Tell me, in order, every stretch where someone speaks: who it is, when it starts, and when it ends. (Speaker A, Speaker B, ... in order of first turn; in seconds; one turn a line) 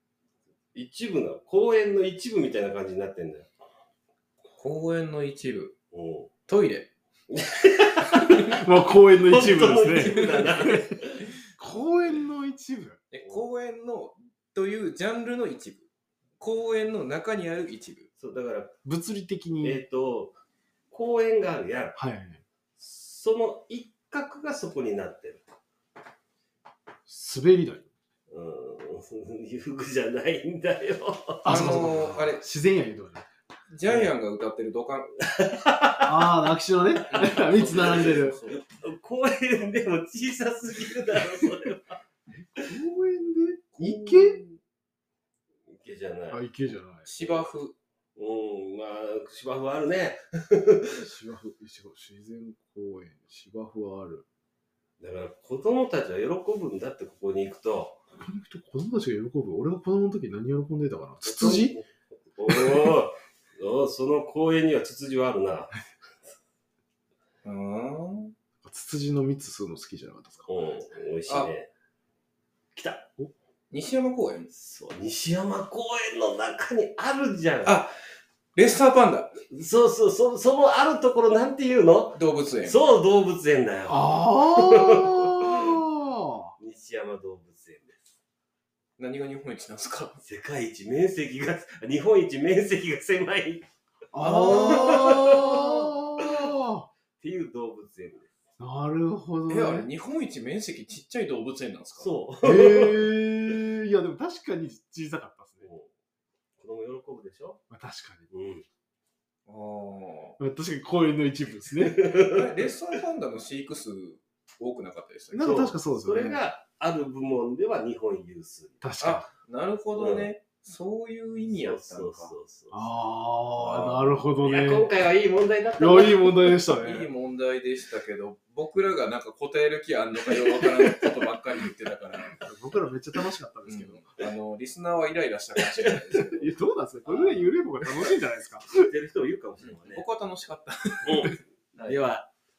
Speaker A: 0.7-3.5
Speaker B: 4.5-5.7
Speaker A: 5.9-6.3
Speaker B: 6.5-6.9
Speaker A: 7.3-8.4
Speaker C: 8.3-10.2
Speaker A: 9.2-11.2
Speaker C: 11.6-13.0
Speaker B: 13.1-15.9
Speaker B: 16.4-18.1
Speaker A: 18.2-18.7
Speaker C: 18.8-19.8
Speaker A: 19.6-20.4
Speaker A: 20.9-22.0
Speaker C: 21.9-22.4
Speaker A: 22.8-25.4
Speaker C: 27.1-27.9
Speaker A: 28.3-31.8
Speaker C: 31.4-33.2
Speaker B: 31.4-32.4
Speaker B: 33.7-35.2
Speaker A: 35.4-36.1
Speaker C: 36.0-38.4
Speaker B: 37.0-38.6
Speaker A: 37.7-41.9
Speaker C: 42.3-44.4
Speaker B: 43.7-44.6
Speaker A: 45.7-46.4
Speaker C: 46.3-47.1
Speaker B: 47.0-47.7
Speaker A: 47.2-47.5
Speaker A: 48.1-50.9
Speaker C: 51.0-54.2
Speaker A: 55.0-58.0
Speaker C: 58.1-61.8
Speaker A: 61.2-61.8
Speaker A: 62.4-65.7
Speaker C: 62.5-62.9
Speaker B: 67.4-68.3
Speaker C: 68.6-70.5
Speaker A: 70.5-71.7
Speaker A: 72.7-73.1
Speaker B: 73.7-74.5
Speaker A: 74.5-77.8
Speaker B: 77.6-77.9
Speaker B: 78.5-79.4
Speaker A: 79.5-85.8
Speaker B: 82.1-82.8
Speaker C: 83.9-86.5
Speaker A: 86.6-88.0
Speaker B: 89.0-90.2
Speaker A: 90.2-93.7
Speaker C: 94.1-96.9
Speaker B: 94.2-95.0
Speaker A: 94.3-96.4
Speaker A: 97.2-98.3
Speaker C: 98.6-99.9
Speaker B: 99.5-102.1
Speaker A: 102.0-103.2
Speaker C: 102.4-105.7
Speaker A: 105.6-105.9
Speaker A: 106.6-107.6
Speaker C: 107.7-108.3
Speaker A: 108.3-108.6
Speaker B: 109.5-110.4
Speaker C: 110.4-112.0
Speaker A: 111.8-112.5
Speaker B: 112.1-115.6
Speaker C: 115.3-116.4
Speaker A: 115.4-118.8
Speaker C: 118.8-119.3
Speaker B: 119.0-122.3
Speaker A: 119.9-120.3
Speaker A: 121.5-122.9
Speaker C: 122.7-124.9
Speaker B: 123.6-124.2
Speaker A: 124.4-126.6
Speaker C: 125.8-127.1
Speaker B: 126.8-132.5
Speaker C: 132.3-134.1
Speaker B: 133.7-136.5
Speaker C: 136.3-138.9
Speaker B: 137.1-138.1
Speaker A: 138.8-140.0
Speaker B: 139.6-142.0
Speaker A: 141.1-142.3